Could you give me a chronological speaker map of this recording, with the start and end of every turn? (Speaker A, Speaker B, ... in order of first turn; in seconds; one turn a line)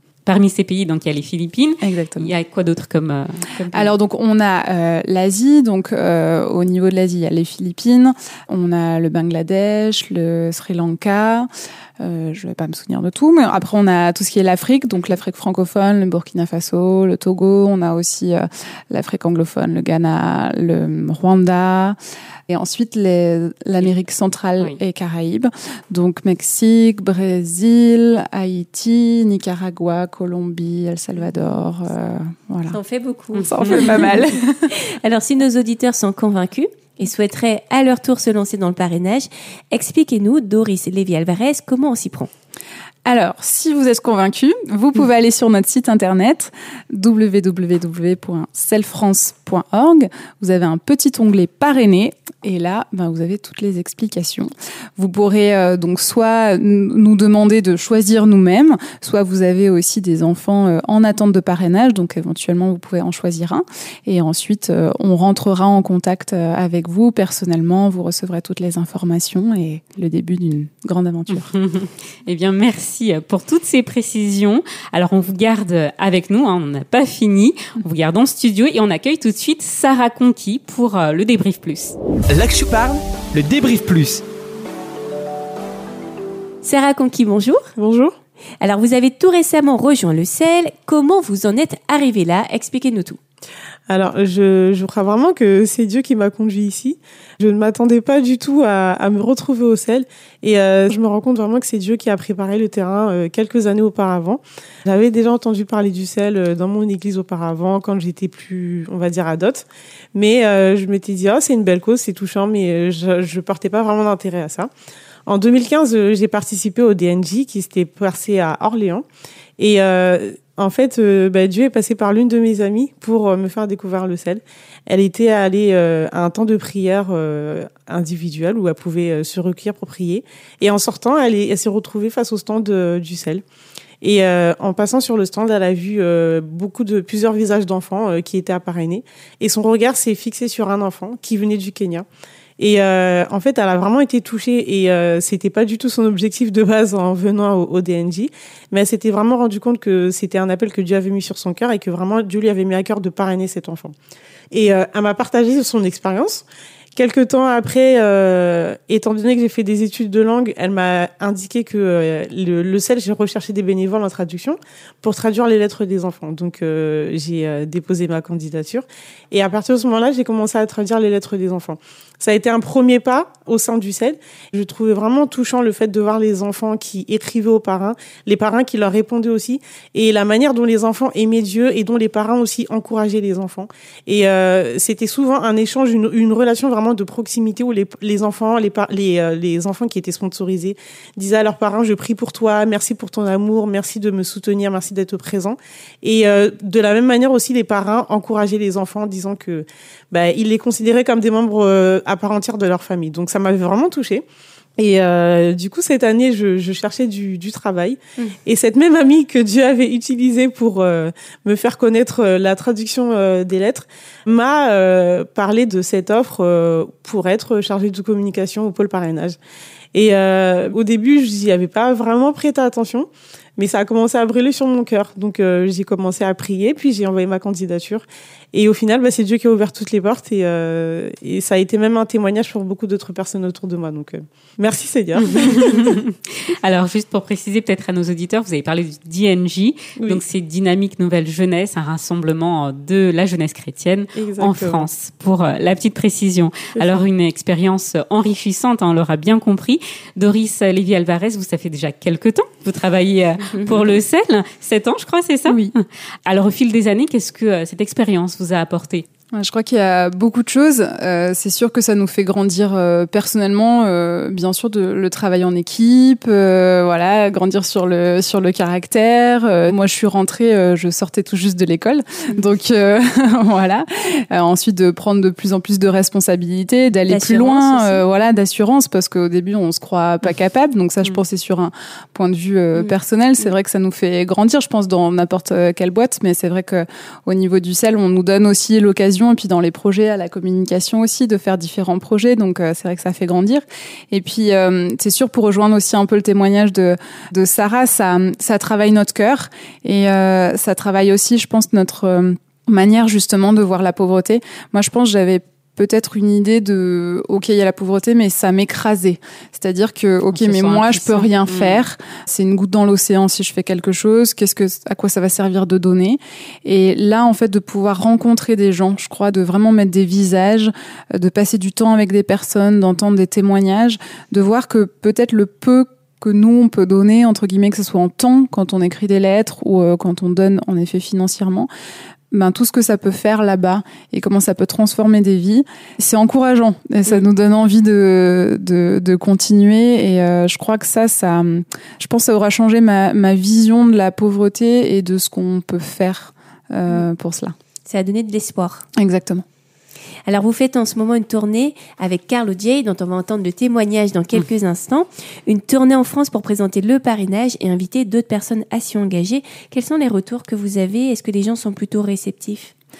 Speaker A: 0.2-4.0
Speaker B: 1.8-2.3
Speaker B: 3.7-11.5
Speaker B: 12.0-22.0
Speaker B: 22.5-32.8
Speaker C: 32.7-42.3
Speaker A: 33.3-33.8
Speaker B: 33.4-34.7
Speaker B: 43.0-71.5
Speaker A: 71.3-82.0
Speaker D: 82.3-84.2
Speaker C: 86.6-87.7
Speaker E: 87.8-88.1
Speaker C: 88.6-93.2
Speaker E: 93.9-114.7
Speaker E: 115.3-119.0
Speaker E: 119.6-133.4
Speaker E: 134.0-142.1
Speaker E: 142.6-153.9
Speaker E: 154.5-156.4
Speaker E: 156.9-204.2
Speaker E: 204.8-219.4
Speaker E: 219.9-236.0
Speaker A: 235.2-259.1
Speaker E: 240.0-240.2
Speaker E: 244.2-244.9
Speaker E: 246.8-247.0
Speaker B: 255.4-255.7
Speaker B: 259.3-331.7
Speaker C: 277.1-278.1
Speaker C: 282.7-283.5
Speaker A: 310.3-311.8
Speaker B: 332.3-347.5
Speaker C: 347.9-348.8
Speaker B: 349.0-349.4
Speaker C: 350.2-362.7